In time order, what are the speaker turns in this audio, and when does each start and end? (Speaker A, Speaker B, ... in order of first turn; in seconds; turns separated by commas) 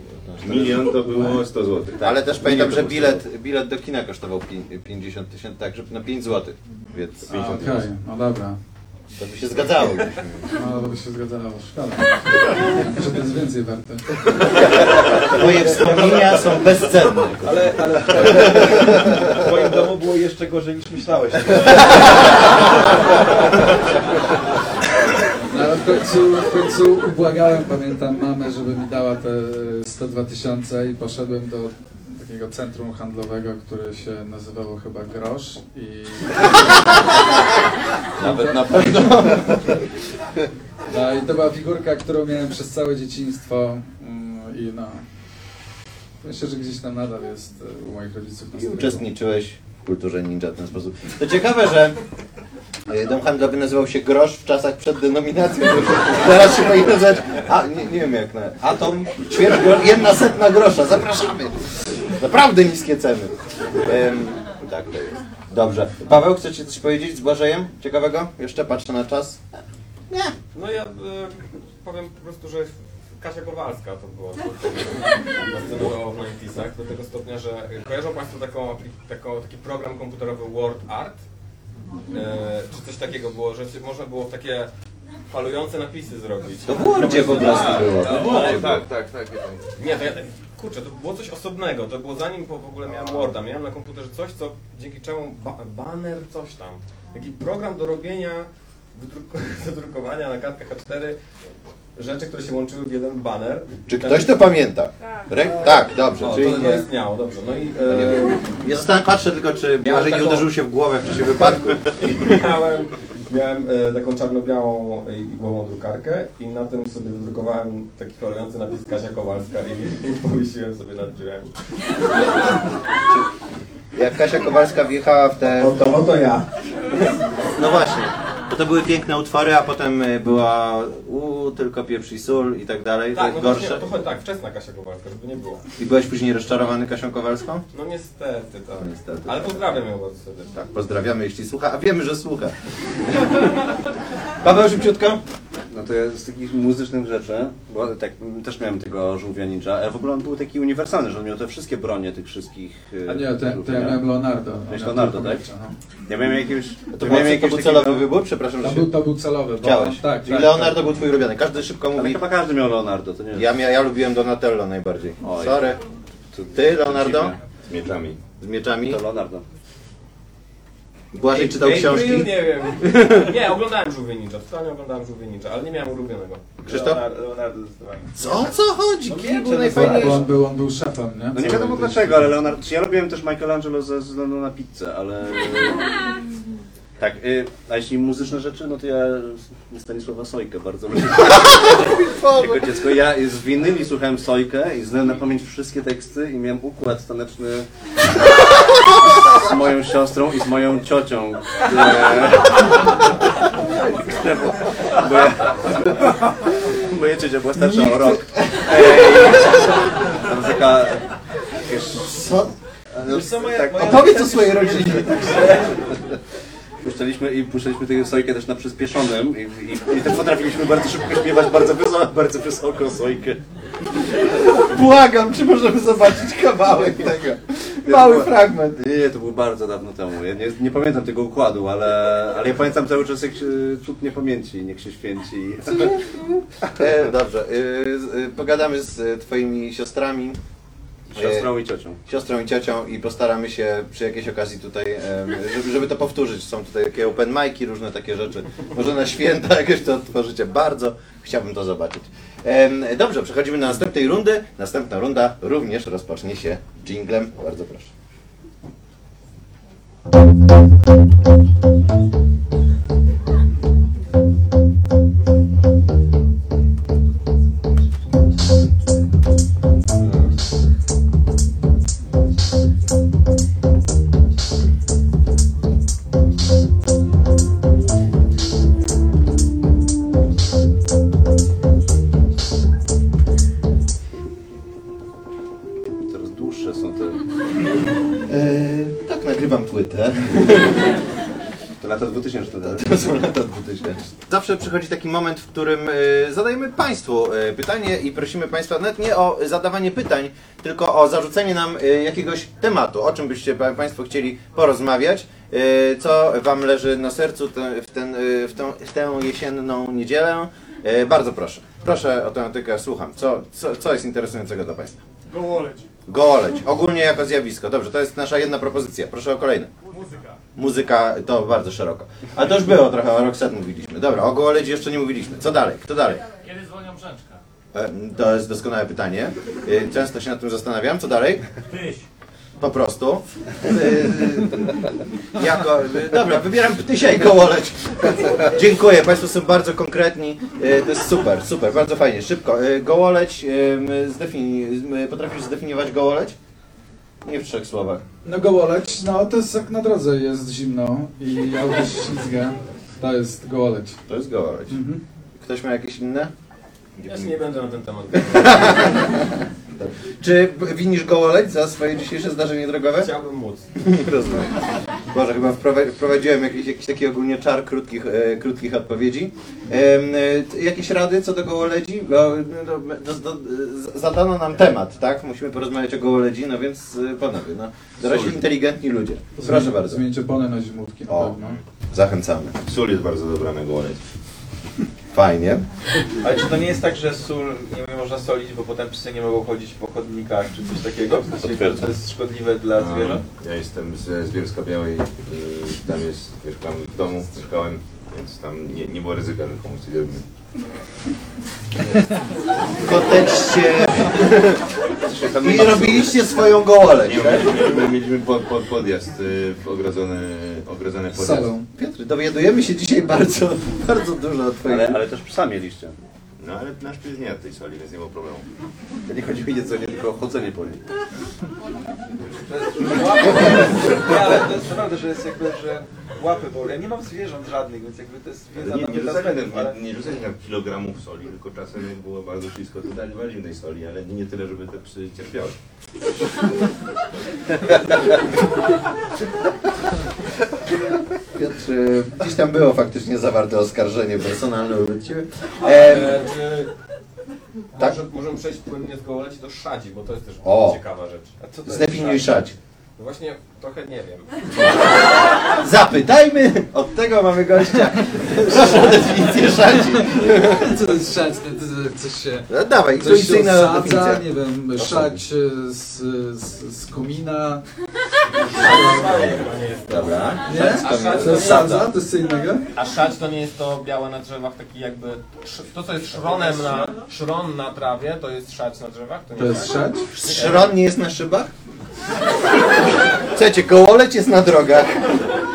Speaker A: 0.3-0.9, Speaker B: 0.4-2.0, Speaker C: 1.0-1.4, Speaker D: 2.0-3.2, Speaker A: 2.0-7.8, Speaker C: 7.3-8.6, Speaker A: 9.1-10.5, Speaker C: 10.5-14.4, Speaker A: 14.4-17.5, Speaker E: 15.4-16.6, Speaker E: 17.4-23.2, Speaker A: 18.2-19.1, Speaker C: 25.5-36.8, Speaker D: 38.2-39.6, Speaker C: 38.2-39.6, Speaker C: 40.9-45.0, Speaker C: 46.2-49.0, Speaker A: 48.5-52.0, Speaker A: 52.9-69.4, Speaker F: 70.5-81.2, Speaker F: 82.1-84.7, Speaker F: 85.3-88.8, Speaker A: 86.6-88.8, Speaker D: 87.7-88.1, Speaker B: 88.1-89.7, Speaker F: 89.8-101.2, Speaker F: 102.0-104.4, Speaker A: 103.9-106.8, Speaker F: 105.5-108.5, Speaker A: 107.9-112.3, Speaker F: 109.8-110.5, Speaker F: 111.3-121.6, Speaker A: 123.9-126.0, Speaker F: 125.4-126.5, Speaker A: 127.5-133.8, Speaker F: 133.1-135.6, Speaker A: 135.8-137.6, Speaker F: 137.7-140.5, Speaker A: 138.8-139.7, Speaker A: 140.5-143.4, Speaker A: 144.4-145.2, Speaker D: 145.7-154.0, Speaker C: 153.1-155.8, Speaker D: 154.7-155.4, Speaker D: 156.1-158.1, Speaker A: 156.9-158.9, Speaker C: 158.6-160.8, Speaker A: 159.6-162.2, Speaker D: 161.9-163.5, Speaker A: 163.3-165.8, Speaker D: 165.2-165.6, Speaker D: 166.3-167.4, Speaker A: 166.5-167.3, Speaker B: 167.7-168.2, Speaker A: 168.4-169.0, Speaker D: 168.8-169.4, Speaker A: 171.1-173.3, Speaker F: 171.3-176.4, Speaker A: 176.7-177.0, Speaker E: 176.7-178.4, Speaker A: 178.2-180.2, Speaker E: 179.0-180.3, Speaker C: 179.7-182.3, Speaker D: 181.3-185.9, Speaker D: 187.0-197.7, Speaker A: 191.3-192.8, Speaker D: 199.2-203.0, Speaker D: 203.9-212.1, Speaker A: 208.7-209.5, Speaker A: 212.0-212.5, Speaker E: 213.0-216.0, Speaker A: 213.0-215.3, Speaker D: 216.8-223.4, Speaker A: 224.1-228.8, Speaker D: 227.8-236.0, Speaker A: 235.7-240.4, Speaker D: 241.1-242.0, Speaker A: 241.1-241.5, Speaker A: 242.1-257.9, Speaker D: 285.9-287.2, Speaker A: 288.2-291.0, Speaker D: 291.8-293.0, Speaker A: 292.6-315.0, Speaker G: 315.3-315.9, Speaker A: 316.1-319.7, Speaker G: 319.9-320.4, Speaker A: 320.6-326.2, Speaker G: 326.2-327.4, Speaker A: 327.7-331.5, Speaker G: 331.7-332.0, Speaker A: 332.6-346.4, Speaker A: 347.2-348.0, Speaker C: 348.2-354.0, Speaker A: 354.1-354.8, Speaker C: 354.7-355.0, Speaker A: 355.4-356.3, Speaker A: 357.0-357.3, Speaker F: 357.1-359.1, Speaker A: 358.2-363.1, Speaker F: 362.9-363.7, Speaker A: 363.8-364.5, Speaker D: 364.0-364.5, Speaker A: 365.1-380.0, Speaker B: 378.0-378.4, Speaker C: 379.4-381.6, Speaker A: 381.1-382.6, Speaker B: 382.6-384.0, Speaker A: 385.1-385.6, Speaker E: 386.2-393.2, Speaker B: 392.8-400.2, Speaker A: 402.8-404.8, Speaker D: 405.1-406.1, Speaker A: 405.3-407.6, Speaker B: 407.0-411.5, Speaker C: 411.1-411.6, Speaker A: 411.7-415.0, Speaker D: 414.6-415.9, Speaker B: 416.4-418.4, Speaker D: 419.1-420.8, Speaker E: 422.5-429.8, Speaker A: 423.2-424.0, Speaker B: 428.5-435.6, Speaker A: 437.8-438.2, Speaker A: 440.6-446.2, Speaker F: 445.6-446.7, Speaker F: 447.8-451.3, Speaker A: 450.4-450.8, Speaker E: 451.4-452.3, Speaker A: 451.6-452.5, Speaker F: 453.0-454.3, Speaker A: 455.6-460.8, Speaker C: 458.4-459.1, Speaker C: 460.0-467.6, Speaker A: 462.5-464.2, Speaker A: 464.8-465.2, Speaker F: 468.5-471.9, Speaker C: 468.5-469.3, Speaker A: 469.9-471.9, Speaker C: 470.4-472.6, Speaker F: 472.7-480.8, Speaker C: 479.3-480.1, Speaker A: 480.1-481.5, Speaker A: 483.2-485.4